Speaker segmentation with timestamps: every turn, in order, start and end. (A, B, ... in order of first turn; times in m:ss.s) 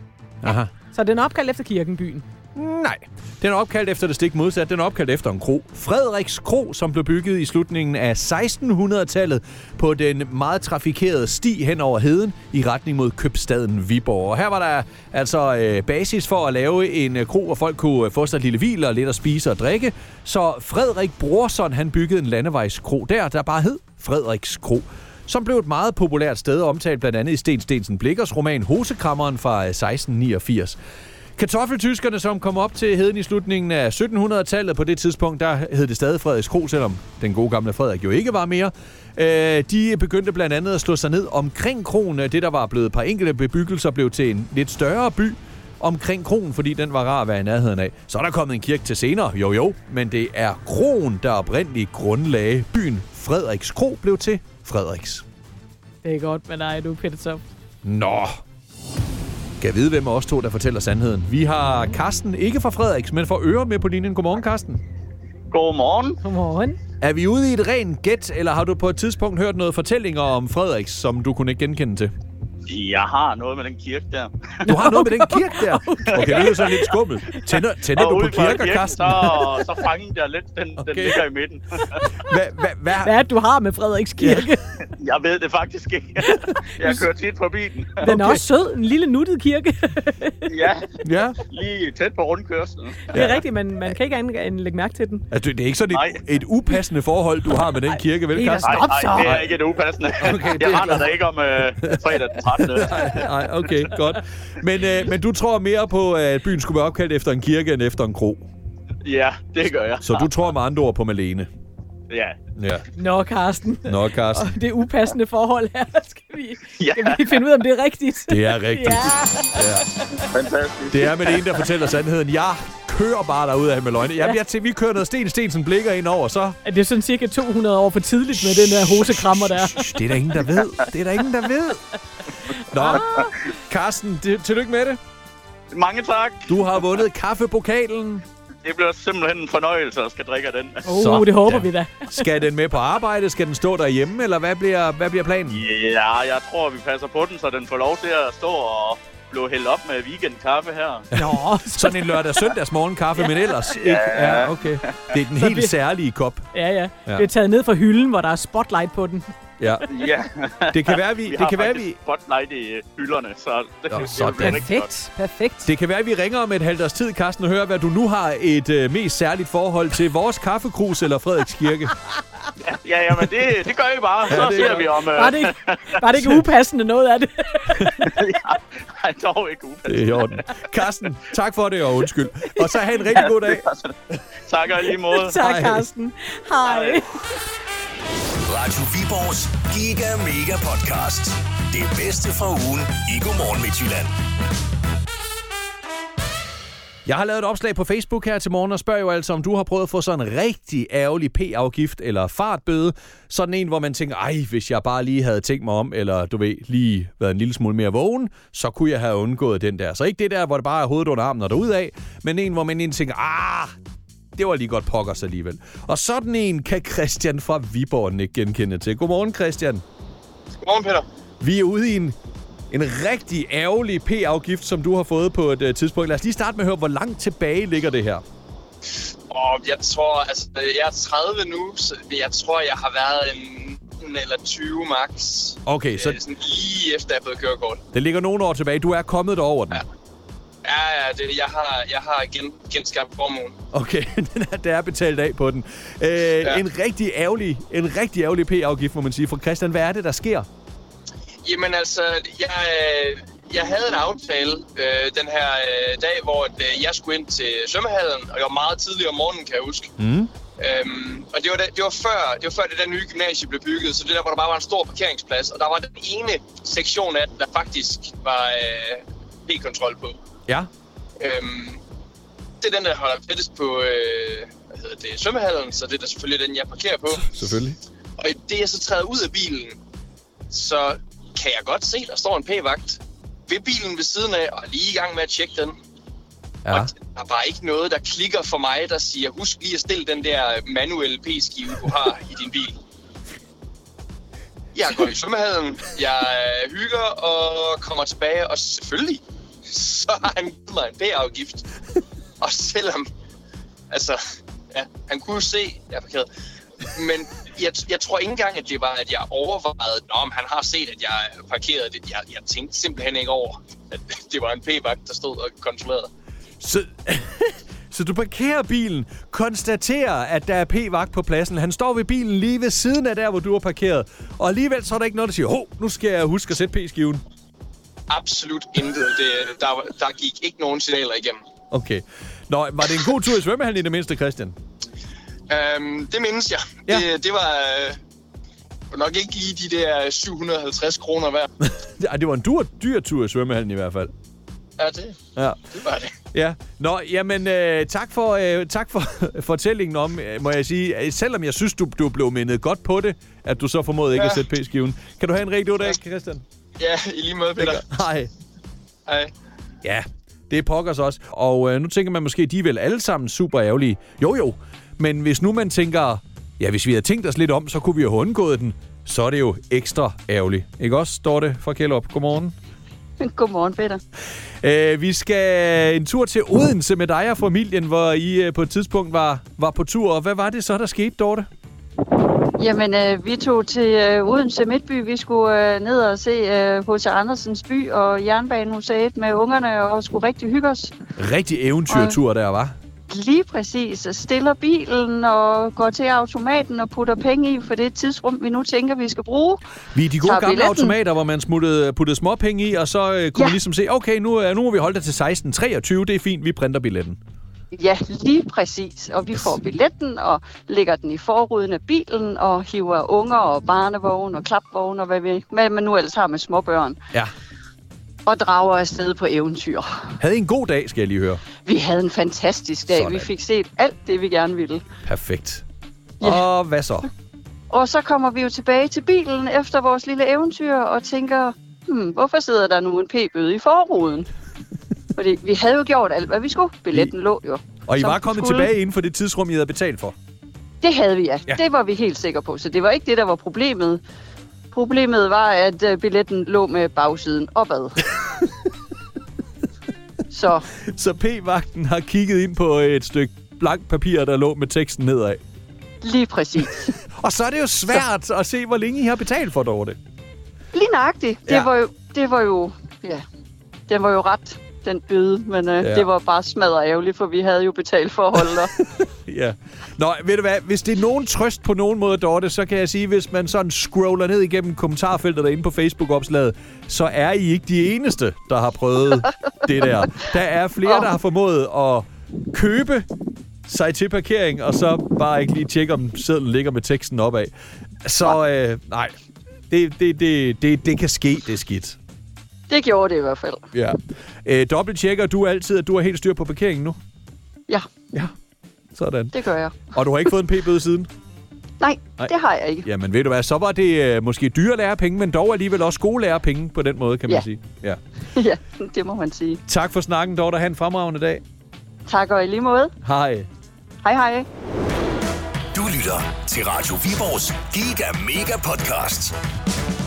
0:00.4-0:00.7 A
0:00.5-0:02.2 B
0:02.6-0:30.8 A
0:31.4-0:55.2 A
0:56.0-0:57.4 B
0:57.8-0:58.4 A
0:59.6-1:04.8 A
1:05.5-1:06.2 C
1:06.2-1:06.8 B
1:07.0-1:12.1 A
1:12.7-1:14.7 C
1:14.6-1:16.7 B
1:14.7-1:19.6 A
1:16.1-1:16.9 C
1:17.9-1:22.0 C
1:20.8-1:21.2 A
1:22.2-1:23.1 A
1:23.0-1:24.6 B
1:24.2-1:24.5 A
1:25.0-1:28.0 C
1:26.3-1:27.0 B
1:28.0-1:30.5 B
1:28.0-1:28.4 A
1:30.5-1:30.9 C
1:31.0-1:31.4 A
1:31.5-1:33.2 C
1:33.1-1:35.2 B
1:33.1-1:33.4 A
1:35.3-1:39.6 A
1:35.9-1:36.2 C
1:38.3-1:39.4 B
1:38.6-1:43.3 C
1:40.2-1:41.2 A
1:41.9-1:48.5 A
1:49.0-1:50.3 C
1:50.0-1:51.5 A
1:52.1-1:52.4 C
1:52.6-1:52.8 A
1:53.0-2:00.2 B
1:53.9-1:54.6 A
1:56.8-1:57.4 C
1:58.3-1:59.9 A
2:00.2-2:01.6 C
2:00.9-2:06.6 A
2:06.6-2:09.9 B
2:08.4-2:11.8 A
2:12.5-2:13.4 B
2:12.7-2:15.0 A
2:15.7-2:16.5 C
2:16.5-2:18.2 A
2:18.6-2:20.8 C
2:20.8-2:22.3 B
2:20.9-2:25.6 A
2:25.5-2:31.1 C
2:31.2-2:32.1 B
2:31.2-2:36.5 A
2:33.7-2:35.1 C
2:35.4-2:35.7 B
2:36.5-2:39.3 B
2:39.6-2:39.9 A
2:39.9-2:44.9 C
2:40.7-2:42.0 A
2:43.9-2:44.6 A
2:44.1-2:45.7 B
2:45.6-2:52.0 A
2:52.6-2:56.0 C
2:54.3-2:55.0 A
2:55.1-2:58.1 B
2:58.0-3:00.4 C
2:59.9-3:03.7 A
3:03.2-3:03.9 C
3:04.5-3:05.4 C
3:05.2-3:07.1 B
3:05.4-3:05.9 A
3:06.6-3:07.0 C
3:08.4-3:14.2 D
3:17.1-3:33.8 A
3:34.4-3:39.8 A
3:40.6-3:41.0 E
3:41.4-3:42.2 A
3:42.7-3:48.2 A
3:49.3-3:57.8 E
3:55.6-3:56.2 A
3:57.9-3:59.8 A
4:00.6-4:03.5 E
4:03.7-4:10.5 A
4:11.4-4:19.9 E
4:20.0-4:20.3 A
4:20.6-4:30.2 E
4:31.2-4:31.8 E
4:32.6-4:37.2 E
4:37.2-4:37.8 A
4:38.2-4:39.8 E
4:40.5-4:45.7 E
4:46.6-4:46.9 A
4:46.7-4:52.8 E
4:54.8-5:01.6 E
5:02.4-5:03.1 E
5:03.9-5:04.2 E
5:04.7-5:06.3 E
5:06.9-5:16.1 E
5:16.6-5:27.2 A
5:28.1-5:31.4 E
5:31.7-5:34.6 A
5:35.5-5:38.0 E
5:38.9-5:41.5 E
5:41.6-5:44.1 A
5:44.8-5:45.2 E
5:45.8-5:46.1 E
5:46.3-5:56.4 A
5:54.1-5:54.4 E
5:56.8-5:57.8 E
5:57.6-5:58.3 A
5:59.1-5:59.3 E
5:59.8-6:12.6 A
6:13.2-6:14.0 F
6:14.6-6:21.5 A
6:22.6-6:30.9 F
6:31.2-6:32.8 A
6:31.9-6:32.2 F
6:33.1-6:39.6 F
6:39.9-6:47.2 A
6:40.2-6:41.0 F
6:47.7-6:57.0 F
6:58.3-7:00.2 F
7:00.2-7:01.4 A
7:01.6-7:04.8 F
7:02.9-7:03.3 A
7:05.0-7:05.6 A
7:06.2-7:07.1 A
7:07.7-7:14.3 F
7:15.2-7:18.7 F
7:17.9-7:20.2 A
7:20.8-7:24.0 F
7:24.7-7:28.0 F
7:30.3-7:30.7 F
7:30.8-7:35.4 A
7:36.0-7:36.9 F
7:37.1-7:40.0 A
7:40.7-7:43.2 F
7:43.9-7:48.7 F
7:48.6-8:03.1 A
8:00.8-8:01.1 F
8:03.7-8:07.5 A
8:08.0-8:09.1 A
8:09.7-8:12.0 A
8:12.7-8:13.7 F
8:13.7-8:17.0 A
8:19.0-8:19.4 A
8:19.3-8:19.9 F
8:19.9-8:21.1 A
8:21.8-8:22.9 F
8:22.8-8:28.0 A
8:28.4-8:29.6 F
8:29.7-8:31.4 A
8:32.1-8:32.9 F
8:33.0-8:33.5 A
8:34.0-8:34.5 F
8:35.7-8:39.4 D